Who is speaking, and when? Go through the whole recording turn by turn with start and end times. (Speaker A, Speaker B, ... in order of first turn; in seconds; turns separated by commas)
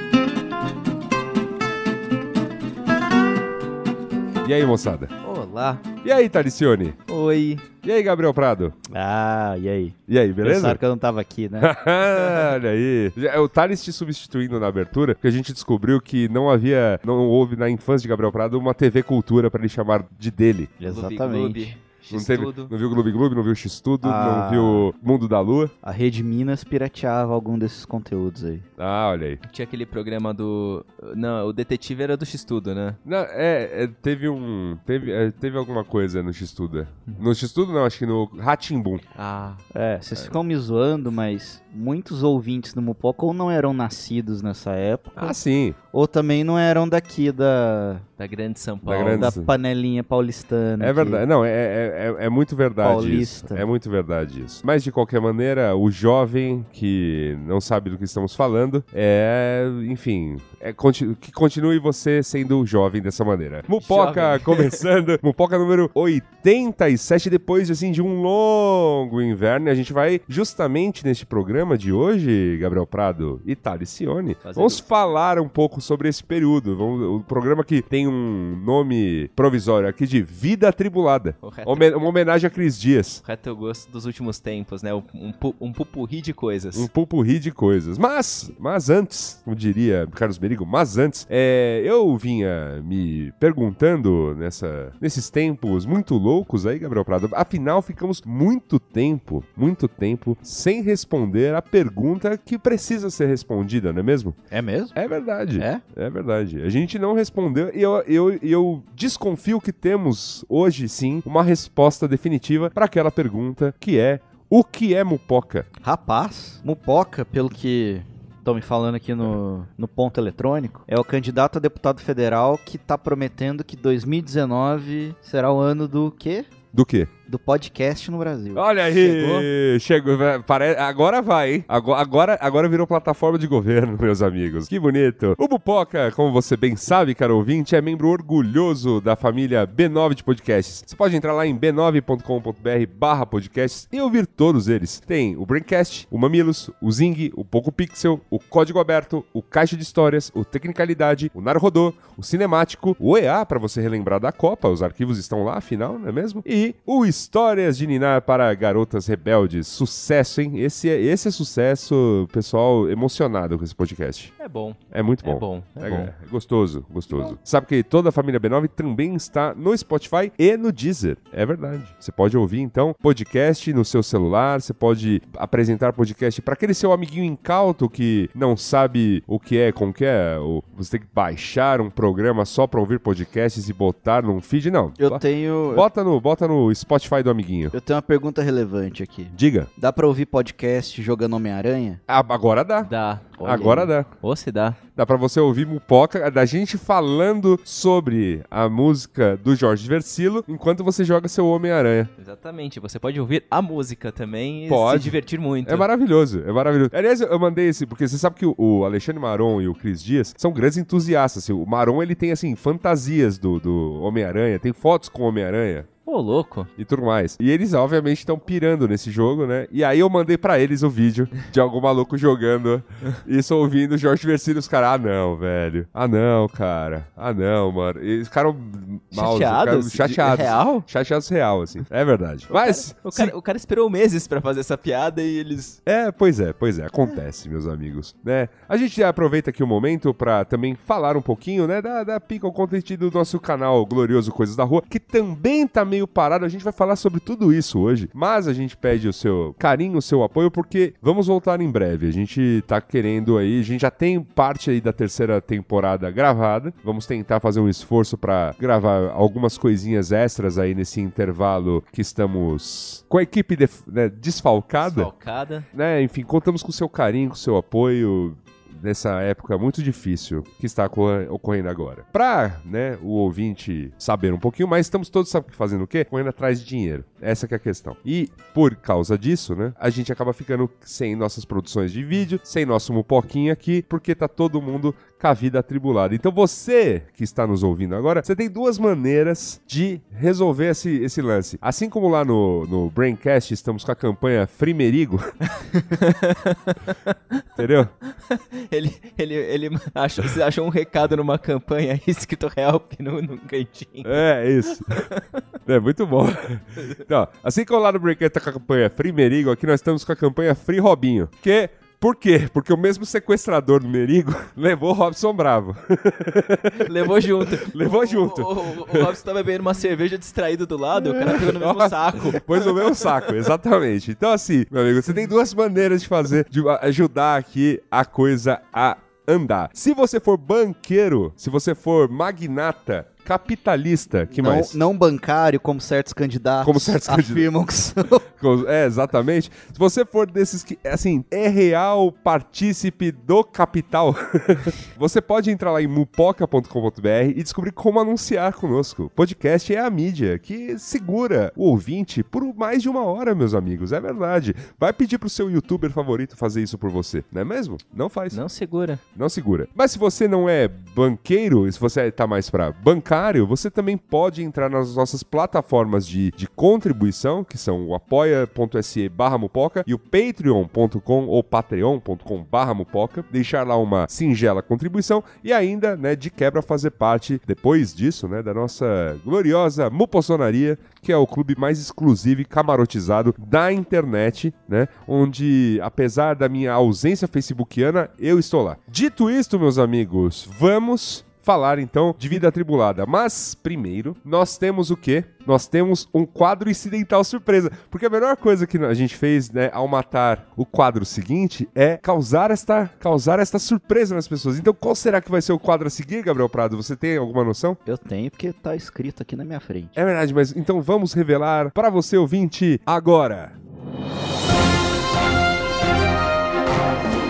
Speaker A: 4.4-5.1, Speaker B: 5.2-5.8, Speaker A: 6.0-7.0, Speaker B: 7.1-7.7, Speaker A: 7.8-8.8, Speaker C: 8.9-11.7, Speaker A: 10.1-10.8, Speaker A: 11.6-20.8, Speaker C: 20.8-21.8, Speaker B: 20.9-22.7, Speaker A: 22.1-25.7, Speaker C: 24.0-24.9, Speaker C: 25.8-28.7, Speaker A: 28.8-29.4, Speaker B: 29.5-33.0, Speaker A: 33.0-39.0, Speaker B: 39.1-39.6, Speaker C: 39.7-45.4, Speaker A: 45.2-45.8, Speaker C: 45.9-48.0, Speaker B: 48.2-49.4, Speaker A: 48.9-49.5, Speaker C: 49.2-51.2, Speaker A: 50.8-83.2, Speaker C: 52.8-53.6, Speaker B: 63.8-64.8, Speaker B: 74.4-74.8, Speaker B: 81.4-81.9, Speaker B: 83.2-86.9, Speaker A: 86.7-104.4, Speaker C: 104.5-105.0, Speaker A: 105.0-115.7, Speaker C: 115.8-126.5, Speaker A: 126.7-127.1, Speaker C: 127.3-128.7, Speaker A: 128.5-164.3, Speaker B: 129.1-129.5, Speaker B: 164.4-166.1, Speaker A: 164.9-187.7, Speaker C: 185.0-185.9, Speaker C: 187.7-192.0, Speaker A: 189.3-189.7, Speaker A: 192.1-192.9, Speaker B: 192.8-194.8, Speaker A: 193.4-194.1, Speaker C: 193.5-193.8, Speaker A: 195.0-202.1, Speaker B: 202.2-205.9, Speaker A: 204.7-215.9, Speaker B: 216.1-216.7, Speaker A: 216.8-233.3, Speaker B: 229.1-230.9, Speaker B: 232.5-235.8, Speaker A: 235.9-265.1, Speaker B: 264.8-265.7, Speaker A: 265.7-295.3, Speaker B: 295.9-297.4, Speaker A: 297.6-297.9, Speaker B: 298.1-304.2, Speaker A: 304.1-305.1, Speaker B: 304.9-305.4, Speaker A: 305.7-319.2, Speaker B: 316.8-323.1, Speaker A: 321.1-334.8, Speaker C: 334.3-338.3, Speaker A: 336.6-337.5, Speaker A: 338.3-358.4, Speaker B: 358.3-359.0, Speaker A: 359.1-407.8, Speaker C: 407.9-409.9, Speaker A: 409.9-413.5